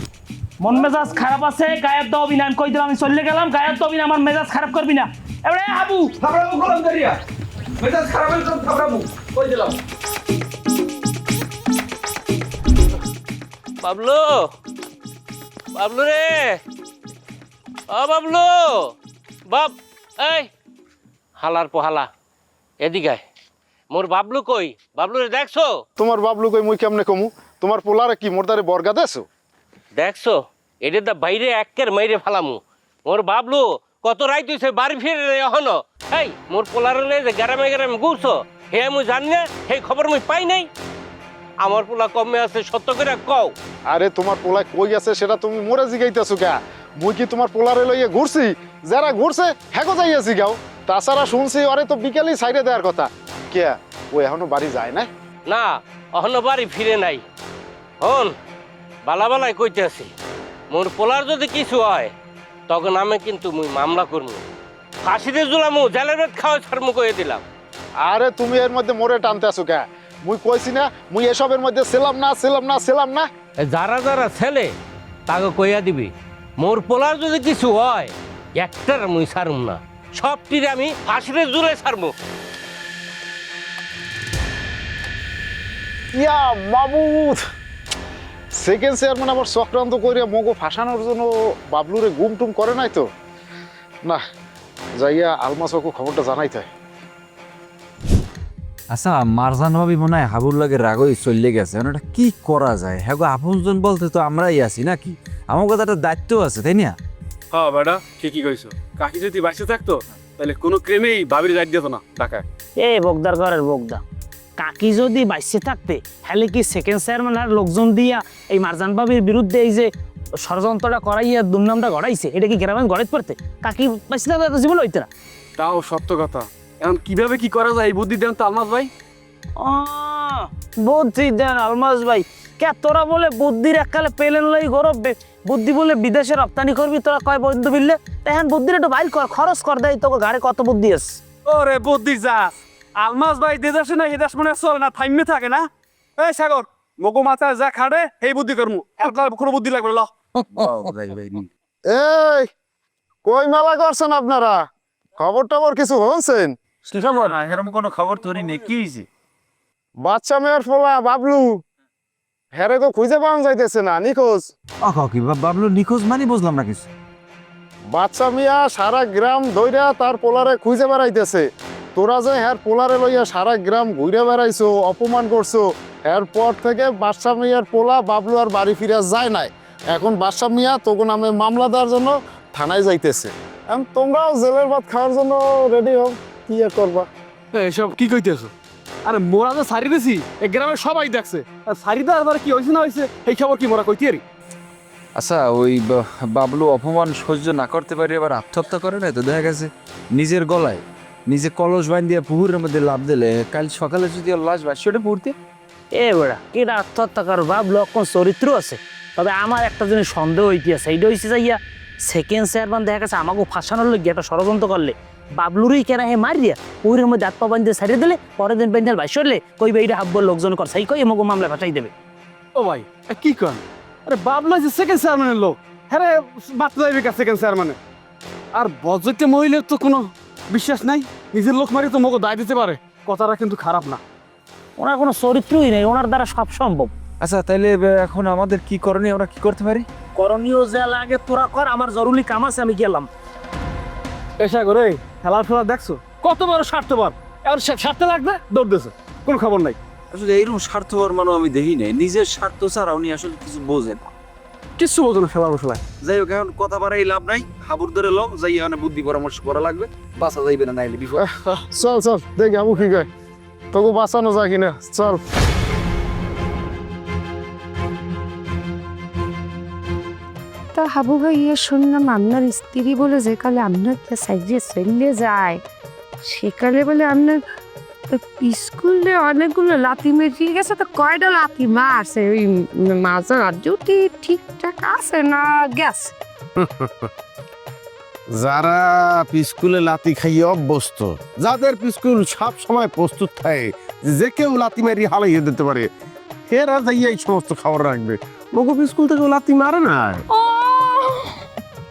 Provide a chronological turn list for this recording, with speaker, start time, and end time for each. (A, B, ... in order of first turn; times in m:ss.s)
0:00.6-0:06.1 A
0:06.2-0:07.2 B
0:07.8-0:09.8 B
0:13.8-0:14.5 C
0:15.7-0:16.6 C
0:17.9-0:18.9 C
0:19.5-0:20.5 C
0:21.4-0:22.1 C
0:22.8-0:23.2 C
0:23.9-0:25.8 C
0:26.0-0:29.2 D
0:29.9-0:40.7 C
0:41.6-0:43.5 C
0:43.9-0:55.1 D
0:55.5-0:57.2 C
0:58.0-0:58.3 C
0:59.0-1:00.1 C
1:00.7-1:02.1 C
1:02.7-1:04.4 C
1:05.0-1:07.4 C
1:08.1-1:13.2 D
1:13.6-1:14.7 C
1:15.3-1:22.1 C
1:26.1-1:27.4 D
1:28.6-1:33.0 D
1:35.0-1:36.7 D
1:38.9-1:47.0 E
1:47.5-1:52.4 F
1:52.8-1:54.0 A
1:54.6-2:05.1 A
2:05.6-2:08.9 F
2:09.6-2:21.2 A
2:21.4-2:30.1 F
2:30.7-2:31.4 E
2:31.9-2:32.5 D
2:33.2-2:34.6 D
2:35.2-2:36.5 D
2:37.0-2:39.0 E
2:40.0-2:41.6 D
2:42.5-2:44.5 D
2:44.8-2:46.9 E
2:47.9-2:51.4 D
2:52.0-3:07.1 D
3:07.5-3:08.5 F
3:09.0-3:14.2 F
3:16.8-3:19.6 E
3:20.2-3:20.7 E
3:21.3-3:25.3 E
3:25.9-3:41.9 A
3:42.5-3:47.8 F
3:48.5-3:54.0 F
3:54.8-3:56.9 A
3:57.2-3:59.8 E
4:00.2-4:03.1 A
4:04.4-4:09.8 F
4:10.1-4:14.0 E
4:14.8-4:15.9 F
4:16.0-4:21.2 E
4:21.2-4:23.1 D
4:23.7-4:25.2 D
4:30.7-4:35.6 G
4:36.2-4:37.4 G
4:38.1-4:46.1 G
4:46.6-4:47.1 H
4:48.3-4:55.9 H
4:56.5-5:00.2 H
5:00.3-5:01.4 G